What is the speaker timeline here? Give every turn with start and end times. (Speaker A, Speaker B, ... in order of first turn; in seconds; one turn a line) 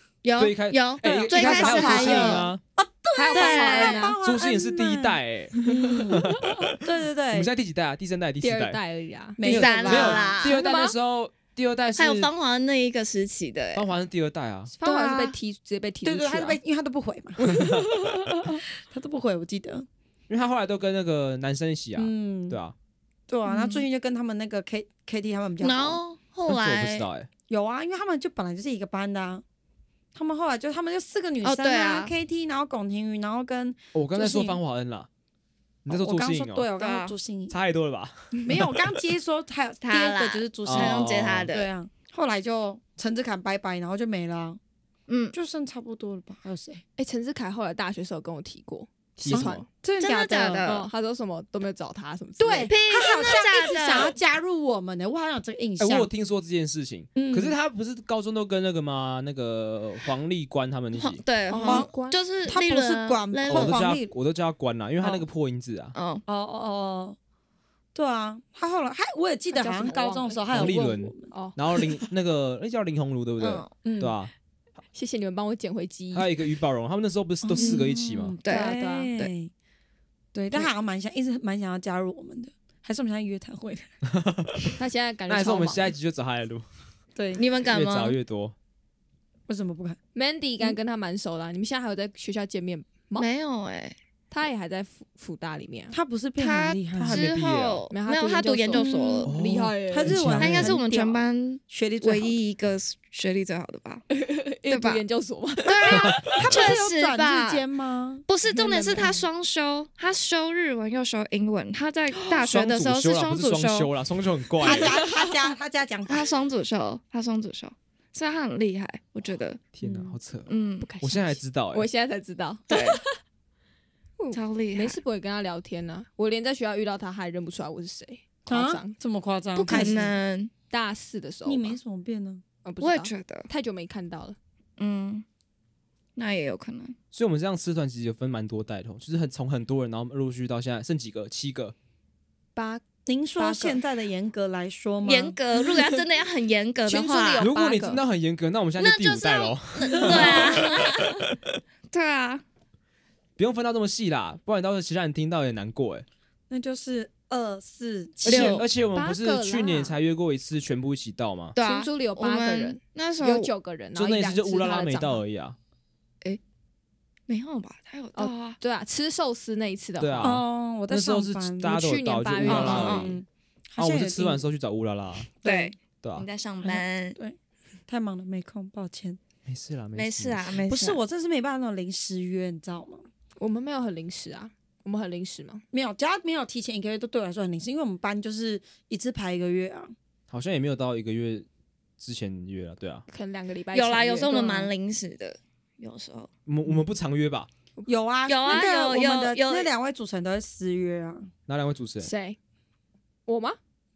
Speaker A: 0.2-2.5
Speaker B: 0.4-2.6
Speaker C: 1.0-7.5
Speaker D: 3.1-4.2
Speaker A: 3.3-4.1
Speaker B: 4.2-6.8
Speaker D: 5.6-6.0
Speaker B: 7.3-8.8
Speaker D: 8.4-9.4
Speaker C: 9.4-10.4
Speaker B: 9.4-12.3
Speaker A: 9.4-10.6
Speaker D: 10.4-10.9
Speaker A: 11.9-13.8
Speaker B: 13.7-14.7
Speaker C: 14.7-15.3
Speaker D: 14.8-16.6
Speaker C: 16.0-17.6
Speaker D: 17.6-18.1
Speaker C: 18.9-19.9
Speaker B: 20.3-22.7
Speaker C: 21.9-22.6
Speaker C: 23.3-26.0
Speaker A: 23.5-23.8
Speaker A: 25.6-27.1
Speaker B: 26.5-27.3
Speaker C: 27.5-29.4
Speaker C: 30.1-34.6
Speaker A: 31.4-32.1
Speaker B: 33.9-35.1
Speaker B: 35.9-36.7
Speaker C: 35.9-37.5
Speaker A: 36.8-37.1
Speaker B: 37.5-39.0
Speaker C: 38.4-44.6
Speaker A: 39.8-41.7
Speaker B: 40.6-41.5
Speaker A: 45.1-45.3
Speaker C: 45.3-46.8
Speaker D: 47.0-49.7
Speaker B: 49.2-49.6
Speaker C: 49.3-50.7
Speaker A: 50.0-50.9
Speaker D: 50.6-52.7
Speaker C: 52.4-56.1
Speaker A: 52.7-54.1
Speaker B: 55.8-61.2
Speaker C: 57.1-57.5
Speaker A: 60.9-63.8
Speaker D: 61.5-62.2
Speaker C: 61.6-61.9
Speaker C: 62.4-64.1
Speaker B: 63.5-65.9
Speaker A: 65.9-66.2
Speaker C: 66.3-67.2
Speaker C: 67.9-71.3
Speaker D: 69.5-70.7
Speaker B: 70.5-74.3
Speaker D: 71.3-71.6
Speaker A: 73.4-73.7
Speaker C: 73.8-74.2
Speaker D: 74.9-76.3
Speaker B: 76.1-78.3
Speaker C: 77.4-79.5
Speaker A: 77.6-78.7
Speaker D: 78.5-79.2
Speaker C: 80.3-83.9
Speaker B: 84.0-84.8
Speaker D: 84.8-85.9
Speaker B: 85.3-86.7
Speaker C: 87.1-87.5
Speaker A: 87.3-88.2
Speaker B: 87.7-88.5
Speaker C: 89.5-90.0
Speaker D: 90.1-93.2
Speaker A: 93.2-94.0
Speaker D: 94.3-96.0
Speaker C: 95.9-97.3
Speaker A: 96.4-99.3
Speaker B: 96.9-97.8
Speaker D: 97.9-100.7
Speaker C: 98.7-99.3
Speaker B: 99.3-100.7
Speaker C: 99.9-102.4
Speaker A: 100.4-104.0
Speaker D: 104.1-106.4
Speaker A: 104.7-105.0
Speaker A: 105.6-107.6
Speaker B: 105.9-106.3
Speaker C: 106.0-109.2
Speaker A: 108.3-113.9
Speaker B: 112.4-115.0
Speaker C: 114.6-116.3
Speaker D: 115.0-115.3
Speaker A: 116.1-119.6
Speaker B: 119.7-120.5
Speaker C: 119.8-120.2
Speaker A: 120.5-120.9
Speaker D: 120.8-123.2
Speaker B: 121.0-121.9
Speaker A: 122.7-123.0
Speaker D: 124.2-128.9
Speaker A: 124.3-125.0
Speaker C: 128.5-130.1
Speaker A: 129.6-130.5
Speaker D: 129.7-130.0
Speaker D: 130.7-131.8
Speaker C: 131.4-132.4
Speaker D: 132.6-134.3
Speaker A: 132.8-133.5
Speaker A: 134.8-135.2
Speaker A: 136.2-136.9
Speaker B: 137.1-141.7
Speaker D: 142.6-142.8
Speaker C: 143.1-145.3
Speaker D: 143.4-143.8
Speaker A: 145.0-147.5
Speaker D: 146.9-148.0
Speaker B: 147.4-151.5
Speaker A: 148.8-151.2
Speaker C: 150.2-150.6
Speaker A: 151.9-152.4
Speaker B: 153.4-156.1
Speaker C: 156.5-158.6
Speaker B: 158.2-161.6
Speaker A: 158.2-158.6
Speaker D: 158.9-159.9
Speaker A: 161.5-163.5
Speaker D: 161.6-165.2
Speaker B: 163.9-165.6
Speaker A: 167.3-168.6
Speaker D: 168.1-170.4
Speaker B: 170.0-173.2
Speaker C: 170.2-171.9
Speaker D: 171.7-173.1
Speaker C: 172.4-174.4
Speaker A: 172.5-173.1
Speaker B: 173.8-175.3
Speaker A: 175.4-177.2
Speaker C: 175.4-175.7
Speaker B: 176.0-176.3
Speaker C: 176.6-177.4
Speaker C: 177.9-179.2
Speaker B: 179.4-180.5
Speaker A: 179.9-181.0
Speaker C: 180.7-183.0
Speaker D: 183.4-185.6
Speaker C: 185.7-189.9
Speaker B: 190.3-191.5
Speaker B: 192.0-193.0
Speaker D: 193.1-194.7
Speaker A: 193.7-196.3
Speaker B: 196.4-197.5
Speaker C: 197.9-201.3
Speaker A: 198.3-199.7
Speaker B: 201.5-202.1
Speaker D: 202.0-202.4
Speaker D: 203.3-203.6